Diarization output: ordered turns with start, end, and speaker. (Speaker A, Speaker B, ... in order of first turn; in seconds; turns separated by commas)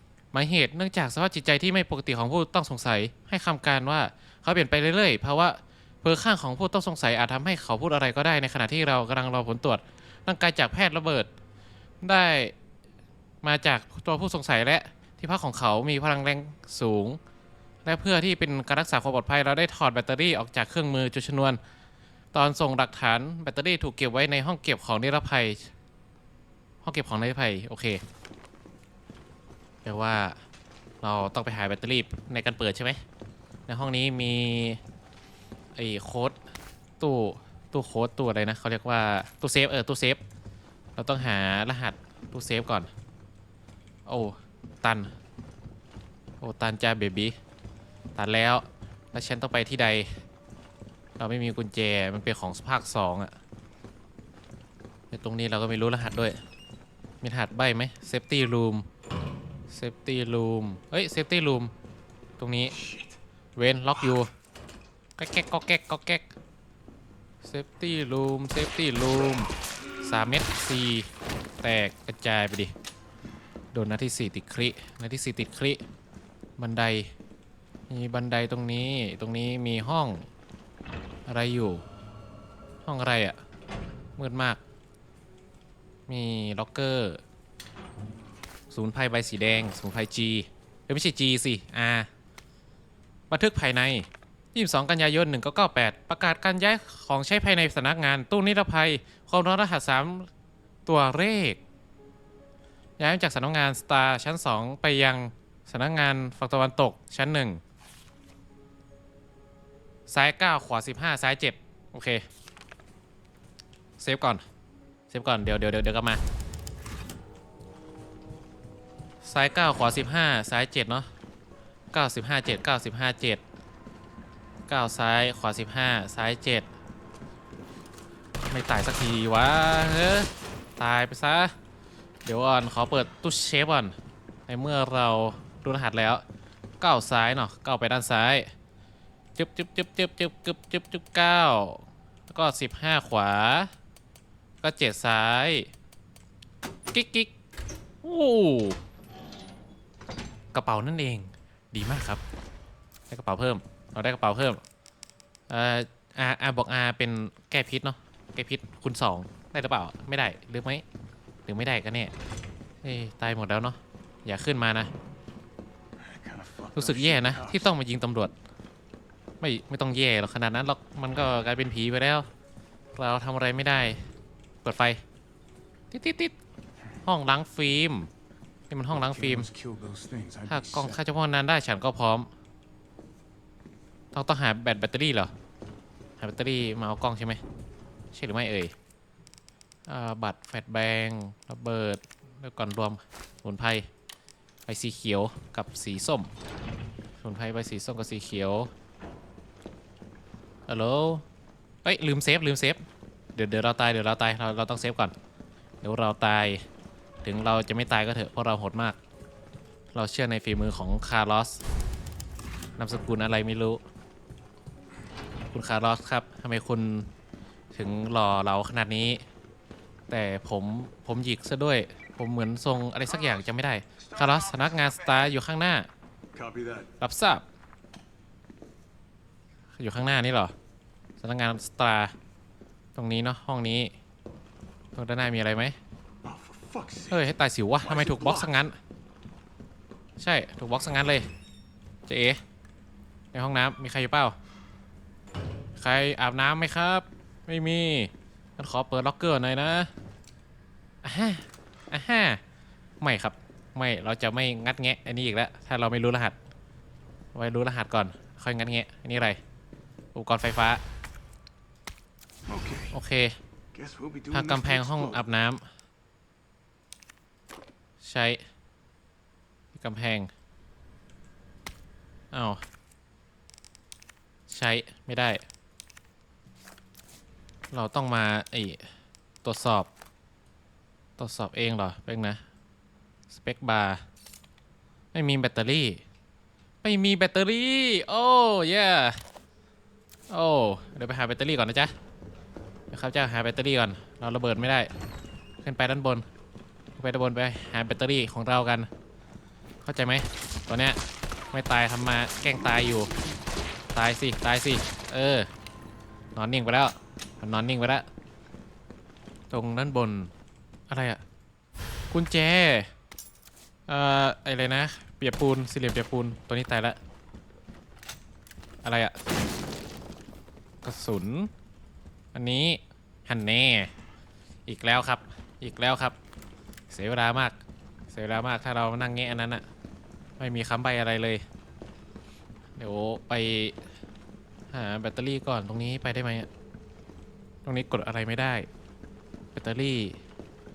Speaker A: 0.3-11.3, Speaker A: 12.0-12.5, Speaker A: 13.4-17.2, Speaker A: 17.8-21.6, Speaker A: 22.3-25.7, Speaker A: 26.8-28.0, Speaker A: 29.8-30.4, Speaker A: 31.0-33.0, Speaker A: 33.7-34.8, Speaker A: 35.8-36.4, Speaker A: 37.0-40.2, Speaker A: 41.0-42.9, Speaker A: 44.1-45.1, Speaker A: 46.4-47.4, Speaker A: 48.1-50.2, Speaker A: 51.2-53.3, Speaker A: 55.1-56.4, Speaker A: 57.2-58.9, Speaker A: 59.7-61.7, Speaker A: 62.4-62.8, Speaker B: 62.7-63.2, Speaker A: 63.6-64.3, Speaker A: 65.2-66.3, Speaker A: 67.4-69.5, Speaker A: 70.0-71.1, Speaker A: 71.6-72.7, Speaker A: 73.7-75.8, Speaker A: 76.6-77.1, Speaker A: 77.9-80.2, Speaker A: 81.3-81.8, Speaker A: 82.8-83.4, Speaker A: 84.2-84.6, Speaker A: 86.1-87.2, Speaker A: 88.7-92.1, Speaker A: 93.3-100.3, Speaker A: 100.9-101.6, Speaker A: 103.0-107.6, Speaker A: 110.1-112.2, Speaker A: 114.0-114.4, Speaker A: 115.1-116.2, Speaker A: 119.2-121.1, Speaker A: 121.9-123.4, Speaker A: 124.7-126.7, Speaker A: 128.5-131.5, Speaker A: 132.2-133.9, Speaker A: 134.5-136.2, Speaker A: 136.8-138.5, Speaker A: 139.4-143.7, Speaker A: 144.6-145.7, Speaker A: 146.9-147.3, Speaker A: 148.0-148.8, Speaker A: 150.5-152.2, Speaker A: 153.1-154.6, Speaker A: 155.5-160.8, Speaker A: 161.5-162.1, Speaker A: 162.8-164.9, Speaker B: 166.0-167.7, Speaker A: 166.8-168.3, Speaker A: 169.4-172.3, Speaker A: 172.9-174.0, Speaker A: 174.6-175.0, Speaker A: 175.9-176.3, Speaker A: 177.0-178.1, Speaker A: 178.7-179.5, Speaker B: 178.9-181.0, Speaker A: 180.5-182.3, Speaker A: 184.1-185.3, Speaker A: 186.2-187.4, Speaker A: 188.1-188.7, Speaker A: 189.9-193.9, Speaker A: 194.7-196.3, Speaker A: 197.2-198.7, Speaker A: 200.7-201.2, Speaker A: 201.8-202.8, Speaker A: 203.3-205.1, Speaker A: 205.8-206.6, Speaker A: 207.2-209.0, Speaker A: 209.9-211.6, Speaker A: 212.8-213.8, Speaker A: 215.5-217.1, Speaker A: 217.7-219.2, Speaker A: 220.1-225.9, Speaker B: 226.3-226.9, Speaker A: 227.0-227.4, Speaker A: 229.8-230.5, Speaker A: 231.2-232.1, Speaker A: 232.9-233.9, Speaker A: 234.9-235.8, Speaker B: 236.2-238.7, Speaker A: 237.1-238.8, Speaker A: 240.2-241.3, Speaker A: 242.1-242.4, Speaker A: 243.3-244.4, Speaker A: 245.8-249.9, Speaker A: 251.0-252.4, Speaker A: 253.0-256.4, Speaker A: 257.3-259.4, Speaker A: 260.1-260.8, Speaker B: 262.5-263.0, Speaker A: 262.9-263.4, Speaker B: 263.7-265.3, Speaker A: 264.3-265.6, Speaker A: 268.0-268.4, Speaker A: 269.7-270.3, Speaker A: 272.3-272.6, Speaker A: 274.5-275.4, Speaker A: 277.7-278.8, Speaker A: 279.4-279.9, Speaker A: 281.2-282.4, Speaker A: 283.3-284.0, Speaker A: 285.1-286.0, Speaker A: 286.8-289.2, Speaker A: 290.3-291.9, Speaker A: 292.9-294.9, Speaker A: 295.6-296.2, Speaker A: 297.0-298.9, Speaker A: 299.8-301.0, Speaker A: 301.5-303.1, Speaker A: 303.9-305.5, Speaker A: 306.4-308.0, Speaker A: 309.5-310.3, Speaker A: 310.9-311.2, Speaker A: 312.1-312.9, Speaker A: 313.9-317.0, Speaker A: 318.8-319.1, Speaker A: 320.8-321.5, Speaker A: 322.3-323.9, Speaker A: 324.7-326.1, Speaker A: 326.9-327.6, Speaker A: 328.1-329.6, Speaker A: 330.4-331.4, Speaker A: 332.8-333.8, Speaker A: 334.7-336.5, Speaker A: 337.6-338.7, Speaker A: 339.5-340.2